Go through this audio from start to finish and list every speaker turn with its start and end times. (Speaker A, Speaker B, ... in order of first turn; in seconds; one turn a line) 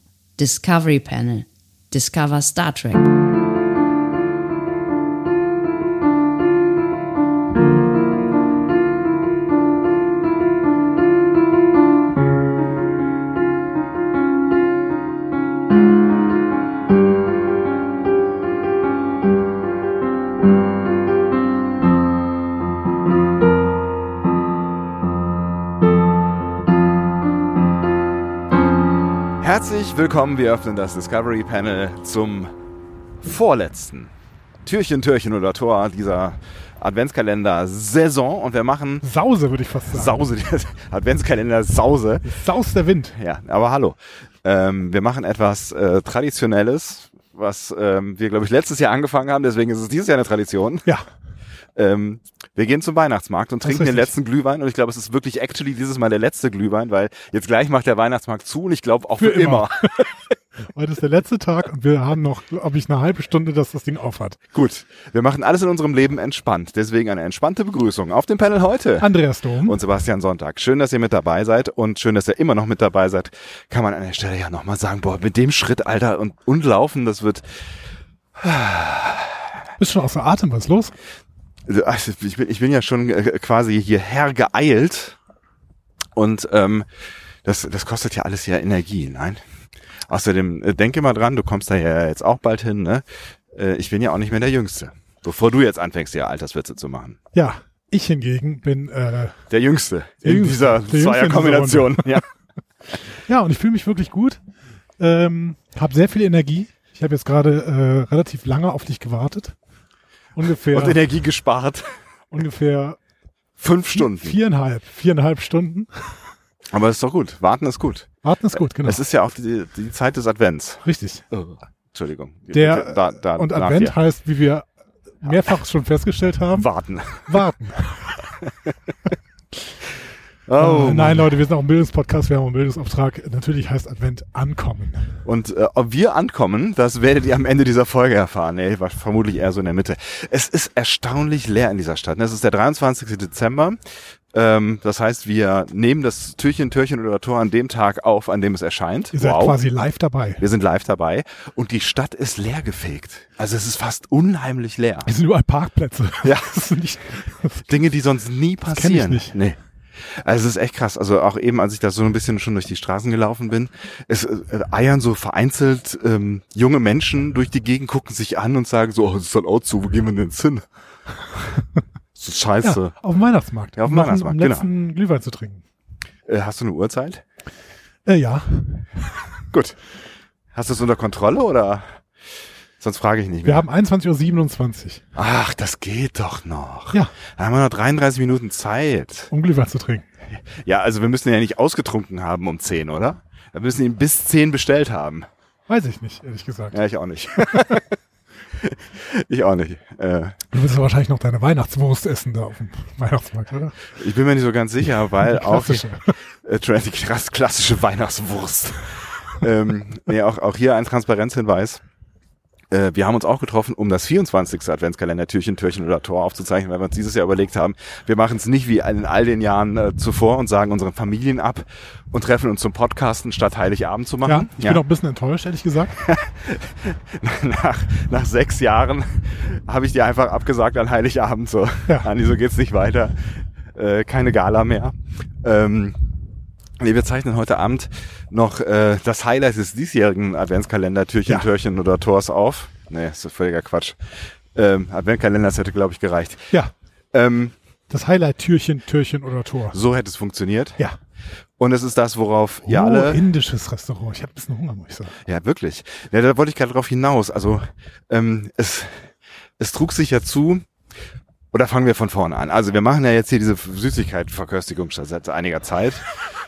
Speaker A: 0.4-3.1
Speaker B: 29.4-32.5
Speaker B: 33.2-34.1
Speaker B: 34.6-39.0
Speaker C: 39.0-40.2
Speaker B: 39.9-42.3
Speaker C: 42.2-43.2
Speaker B: 43.2-50.9
Speaker B: 51.8-60.3
Speaker C: 53.6-54.1
Speaker C: 59.2-59.9
Speaker C: 60.7-64.4
Speaker B: 64.5-69.1
Speaker C: 69.0-69.8
Speaker B: 69.7-77.4
Speaker B: 78.3-79.4
Speaker C: 79.8-80.9
Speaker B: 81.7-85.2
Speaker B: 86.2-86.9
Speaker B: 87.5-89.4
Speaker B: 90.1-97.2
Speaker C: 97.3-99.4
Speaker B: 99.5-102.3
Speaker C: 100.2-102.2
Speaker C: 103.2-104.4
Speaker C: 105.0-109.5
Speaker C: 110.4-111.0
Speaker B: 110.7-111.9
Speaker C: 112.3-113.0
Speaker B: 113.6-114.4
Speaker C: 113.9-116.2
Speaker B: 116.7-118.1
Speaker C: 118.2-119.0
Speaker B: 118.8-124.0
Speaker C: 120.8-121.2
Speaker C: 122.5-124.7
Speaker C: 125.2-126.7
Speaker B: 126.5-127.4
Speaker C: 127.3-128.3
Speaker B: 128.4-128.7
Speaker B: 130.5-131.4
Speaker C: 130.6-135.1
Speaker B: 135.2-143.8
Speaker B: 144.3-149.6
Speaker C: 149.1-150.4
Speaker B: 150.4-155.1
Speaker C: 155.1-157.8
Speaker B: 156.2-156.7
Speaker B: 157.7-170.7
Speaker C: 158.7-159.4
Speaker B: 172.2-172.9
Speaker C: 172.6-175.6
Speaker B: 173.8-174.7
Speaker B: 176.3-177.2
Speaker C: 178.1-178.9
Speaker B: 179.5-179.8
Speaker B: 180.5-182.0
Speaker B: 182.8-183.7
Speaker C: 183.4-185.0
Speaker B: 185.2-189.3
Speaker C: 189.3-190.1
Speaker B: 190.5-195.3
Speaker C: 195.7-196.8
Speaker B: 196.7-198.0
Speaker C: 197.3-197.8
Speaker B: 198.6-200.4
Speaker C: 200.5-203.8
Speaker B: 204.0-205.9
Speaker C: 205.2-206.1
Speaker B: 206.4-211.8
Speaker B: 212.7-224.8
Speaker C: 224.2-226.0
Speaker B: 225.9-236.0
Speaker B: 236.8-244.0
Speaker B: 244.5-246.5
Speaker B: 247.1-247.5
Speaker C: 247.9-249.8
Speaker B: 249.7-250.8
Speaker B: 251.6-253.3
Speaker C: 252.7-255.2
Speaker B: 255.2-259.1
Speaker B: 259.6-260.6
Speaker B: 261.5-266.1